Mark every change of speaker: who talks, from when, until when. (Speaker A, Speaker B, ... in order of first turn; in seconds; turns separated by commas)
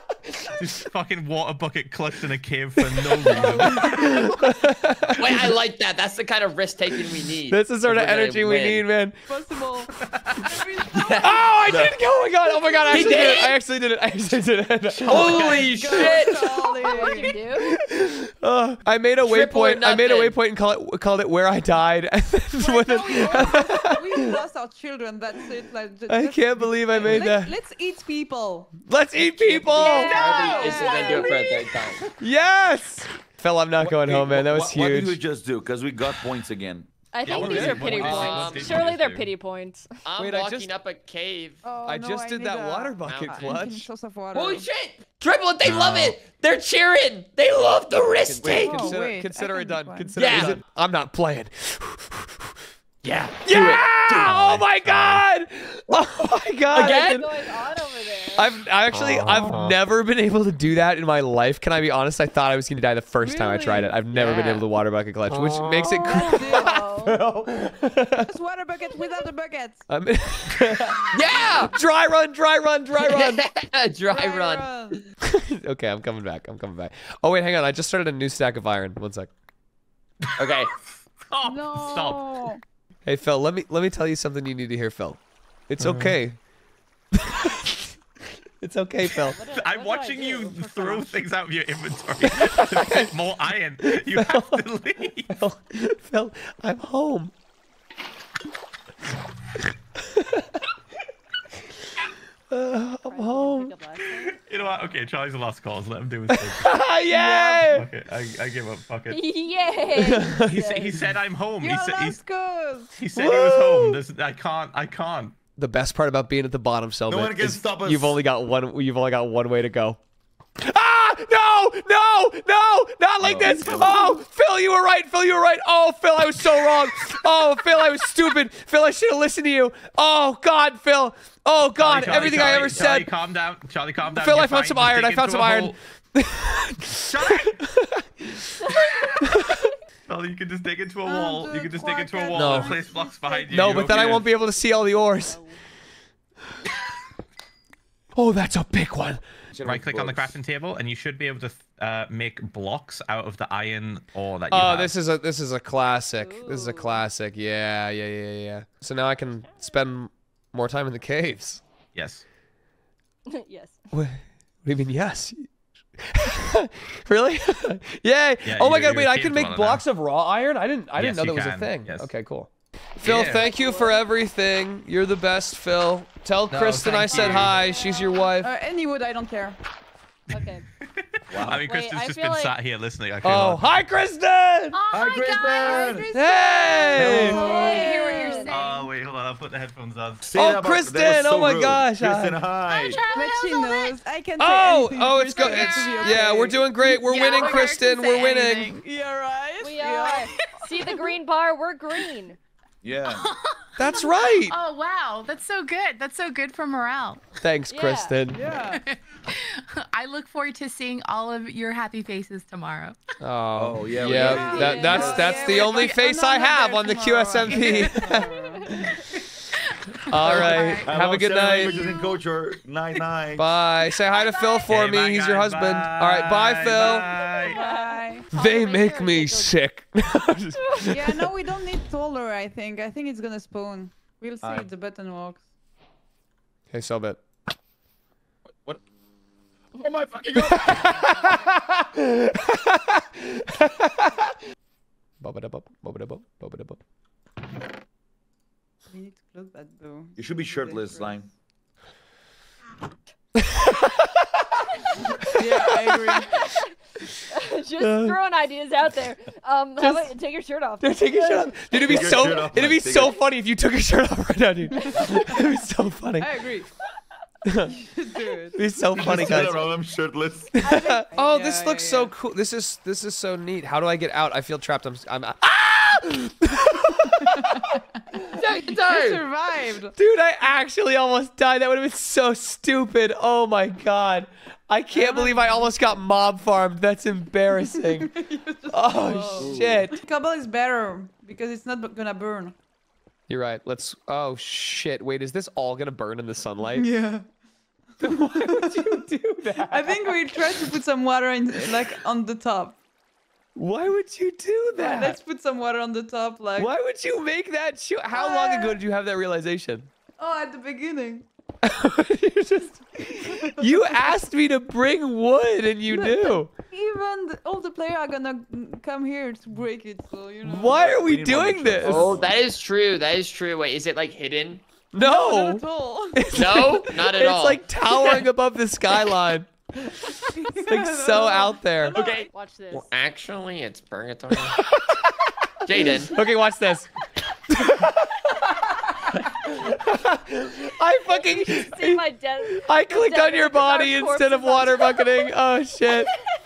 Speaker A: 0.6-4.2, Speaker B: 2.8-5.5, Speaker C: 3.3-4.3, Speaker D: 5.2-8.8, Speaker B: 7.5-9.2, Speaker C: 9.3-11.8, Speaker D: 10.9-11.9, Speaker B: 11.2-15.9, Speaker C: 12.8-13.3, Speaker D: 12.9-13.6, Speaker D: 15.1-16.9, Speaker A: 15.1-15.7, Speaker C: 15.1-17.4, Speaker E: 16.7-17.7, Speaker B: 17.6-24.4, Speaker D: 19.2-20.4, Speaker C: 22.6-28.7, Speaker B: 26.1-27.5, Speaker E: 27.1-27.3, Speaker B: 28.8-30.2, Speaker D: 29.4-32.0, Speaker C: 29.7-31.6, Speaker E: 29.8-31.7, Speaker B: 32.2-35.2, Speaker F: 33.8-36.9, Speaker E: 37.1-39.9, Speaker A: 37.2-39.3, Speaker B: 37.3-38.2, Speaker D: 38.0-38.8, Speaker D: 40.0-41.6, Speaker B: 40.2-40.7, Speaker C: 41.6-44.6, Speaker B: 41.8-43.9, Speaker D: 43.0-43.6, Speaker D: 44.3-48.9, Speaker A: 45.6-46.1, Speaker B: 48.4-52.5, Speaker C: 48.6-50.6, Speaker D: 50.1-50.6, Speaker D: 53.0-53.8, Speaker B: 53.4-57.4, Speaker A: 54.2-55.2, Speaker D: 56.7-57.3, Speaker E: 56.8-58.5, Speaker B: 58.3-68.3, Speaker C: 63.2-63.9, Speaker D: 64.1-64.7, Speaker C: 66.1-66.9, Speaker E: 66.2-67.2, Speaker C: 68.2-69.8, Speaker B: 69.9-73.4, Speaker D: 71.1-71.7, Speaker D: 72.9-75.0, Speaker C: 74.1-75.0, Speaker B: 75.2-79.3, Speaker D: 80.4-80.7, Speaker A: 81.3-82.5, Speaker C: 81.4-82.6, Speaker B: 83.0-86.4, Speaker A: 85.8-86.2, Speaker B: 87.1-87.9, Speaker B: 88.6-89.4, Speaker E: 89.3-91.3, Speaker A: 89.5-95.4, Speaker B: 92.2-93.2, Speaker B: 93.8-94.7, Speaker B: 95.3-97.3, Speaker B: 100.1-100.6, Speaker B: 102.5-103.7, Speaker E: 103.0-104.4, Speaker A: 104.2-106.7, Speaker B: 106.3-107.9, Speaker C: 107.2-107.7, Speaker A: 107.7-109.2, Speaker E: 109.1-111.0, Speaker B: 110.0-110.6, Speaker A: 110.4-112.2, Speaker C: 111.6-112.9, Speaker A: 113.0-115.3, Speaker B: 113.1-114.0, Speaker B: 115.6-120.0, Speaker F: 117.1-118.2, Speaker B: 120.6-133.1, Speaker F: 123.2-124.2, Speaker A: 131.8-135.8, Speaker B: 134.2-138.5, Speaker A: 137.1-137.6, Speaker E: 138.6-139.7, Speaker B: 139.2-139.7, Speaker A: 140.1-144.3, Speaker C: 141.0-143.4, Speaker B: 142.3-142.8, Speaker E: 143.3-145.6, Speaker B: 143.5-145.4, Speaker B: 148.1-149.2, Speaker F: 149.5-150.4, Speaker A: 149.6-154.9, Speaker B: 154.5-161.6, Speaker E: 156.2-157.0, Speaker A: 161.9-162.2, Speaker E: 163.3-163.8, Speaker B: 163.9-178.5, Speaker A: 168.4-169.8, Speaker A: 171.0-172.1, Speaker A: 173.0-173.5, Speaker E: 173.1-174.1, Speaker A: 176.5-177.6, Speaker C: 177.2-179.6, Speaker A: 180.3-183.8, Speaker E: 180.3-180.6, Speaker F: 181.3-181.6, Speaker E: 181.6-182.5, Speaker B: 183.2-184.8, Speaker G: 184.7-188.9, Speaker F: 184.9-186.1, Speaker B: 186.1-187.4, Speaker F: 186.9-187.9, Speaker E: 186.9-188.6, Speaker C: 187.4-188.3, Speaker A: 188.5-190.3, Speaker F: 190.2-193.0, Speaker B: 190.3-192.4, Speaker G: 192.6-194.0, Speaker C: 193.1-196.7, Speaker B: 194.4-198.8, Speaker G: 195.3-198.8, Speaker C: 197.2-197.6, Speaker C: 198.8-201.1, Speaker E: 199.6-202.4, Speaker F: 202.8-203.3, Speaker G: 203.1-207.2, Speaker B: 203.8-204.6, Speaker B: 207.4-208.4, Speaker E: 207.7-208.2, Speaker C: 208.3-208.8, Speaker G: 208.7-213.0, Speaker B: 213.2-218.3, Speaker F: 213.6-215.2, Speaker E: 214.1-215.8, Speaker C: 214.4-218.7, Speaker G: 217.5-218.0, Speaker E: 218.1-219.0, Speaker G: 219.7-220.9, Speaker B: 220.1-221.8, Speaker F: 220.8-223.5, Speaker G: 221.5-222.2, Speaker B: 223.3-227.1, Speaker E: 224.1-224.6, Speaker A: 224.6-227.6, Speaker E: 227.0-229.5, Speaker C: 227.1-228.2, Speaker B: 228.3-231.3, Speaker C: 230.9-235.4, Speaker F: 234.4-234.7, Speaker B: 236.7-237.2, Speaker F: 239.8-241.0, Speaker B: 240.3-244.2, Speaker B: 245.2-246.8, Speaker C: 248.9-251.3, Speaker F: 250.2-251.3, Speaker B: 253.4-254.2, Speaker E: 255.0-255.4, Speaker B: 255.3-256.4, Speaker C: 255.4-256.3, Speaker E: 256.3-256.6, Speaker E: 257.3-262.3, Speaker B: 257.8-258.2, Speaker B: 259.8-260.1, Speaker B: 260.8-266.4, Speaker F: 261.7-263.1, Speaker C: 264.9-265.2, Speaker C: 266.2-266.7, Speaker B: 267.4-267.8, Speaker C: 267.7-268.6, Speaker B: 268.5-269.7, Speaker F: 268.9-270.5, Speaker B: 270.6-277.8, Speaker E: 270.6-271.0, Speaker C: 270.7-272.1, Speaker C: 277.3-277.8, Speaker D: 278.3-279.2, Speaker C: 278.8-279.9, Speaker B: 279.9-288.1, Speaker C: 284.9-286.0, Speaker C: 287.8-292.5, Speaker B: 288.7-289.9, Speaker B: 293.3-296.9, Speaker C: 296.7-297.2, Speaker B: 298.0-300.7, Speaker C: 298.0-299.0, Speaker C: 299.6-302.8, Speaker B: 303.6-305.2, Speaker C: 304.8-306.7, Speaker B: 306.6-309.9, Speaker C: 308.1-308.8, Speaker C: 310.2-311.2, Speaker B: 311.6-316.5, Speaker C: 313.3-314.1, Speaker C: 315.9-321.0, Speaker B: 320.4-322.1, Speaker F: 320.6-322.4, Speaker D: 321.8-324.6, Speaker B: 324.9-329.5, Speaker C: 325.0-326.6, Speaker D: 326.3-328.2, Speaker B: 330.0-332.0, Speaker C: 330.3-332.0, Speaker D: 331.9-334.6, Speaker E: 332.1-332.9, Speaker B: 334.5-335.2, Speaker D: 335.6-336.1, Speaker B: 335.8-336.9, Speaker B: 337.5-338.3, Speaker B: 339.4-346.1, Speaker E: 341.0-345.3